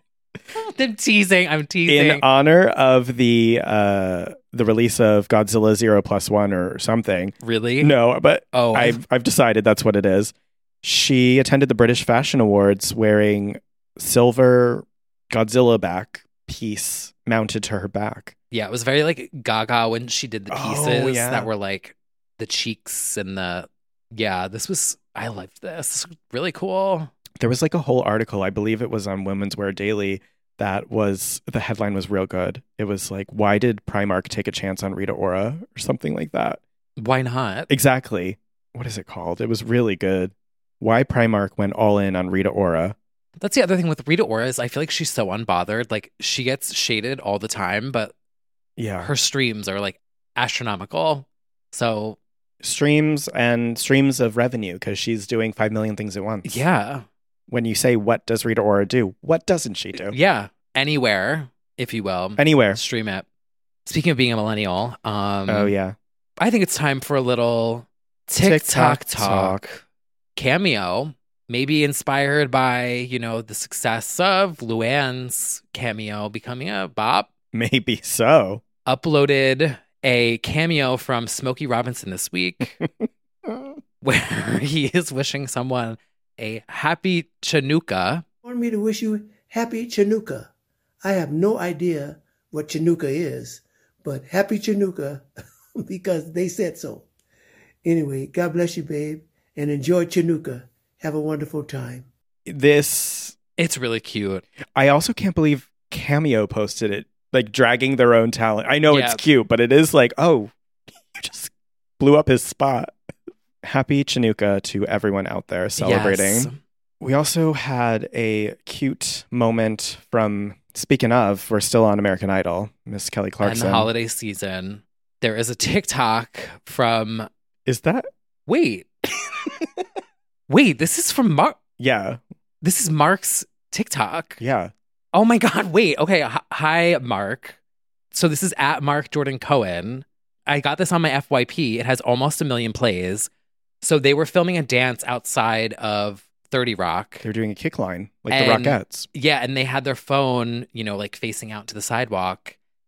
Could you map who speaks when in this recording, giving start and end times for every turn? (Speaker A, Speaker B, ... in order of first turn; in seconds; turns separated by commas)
Speaker A: 0.6-2.2, Speaker B: 1.9-18.4, Speaker A: 7.4-8.0, Speaker A: 8.5-9.0, Speaker A: 18.5-27.1, Speaker B: 20.5-21.5, Speaker B: 27.4-36.6, Speaker A: 37.0-37.7, Speaker B: 37.7-43.0, Speaker A: 43.4-48.1, Speaker B: 48.8-49.1, Speaker A: 49.0-52.2, Speaker B: 52.6-56.6, Speaker A: 56.4-57.0, Speaker B: 57.5-60.2, Speaker A: 59.9-63.3, Speaker B: 62.4-62.8, Speaker A: 63.9-65.7, Speaker B: 65.5-66.0, Speaker A: 66.4-69.8, Speaker B: 68.4-69.6, Speaker A: 70.4-77.3, Speaker B: 77.5-78.6, Speaker A: 78.9-82.8, Speaker B: 82.8-83.8, Speaker A: 84.0-88.2, Speaker C: 88.5-90.5, Speaker C: 91.0-95.3, Speaker C: 95.8-97.1, Speaker C: 97.8-102.1, Speaker B: 102.5-103.4, Speaker A: 103.6-104.4, Speaker B: 104.8-110.5, Speaker A: 108.9-109.2, Speaker B: 111.1-112.9, Speaker B: 113.6-123.9, Speaker A: 115.8-116.6, Speaker A: 123.4-127.3, Speaker B: 127.7-128.1, Speaker A: 128.5-128.9, Speaker A: 130.5-131.6, Speaker B: 131.8-132.2, Speaker A: 132.6-134.4, Speaker B: 134.4-134.7, Speaker A: 135.1-137.6, Speaker A: 138.1-143.3, Speaker A: 143.8-147.3, Speaker B: 147.2-149.1, Speaker A: 148.3-152.6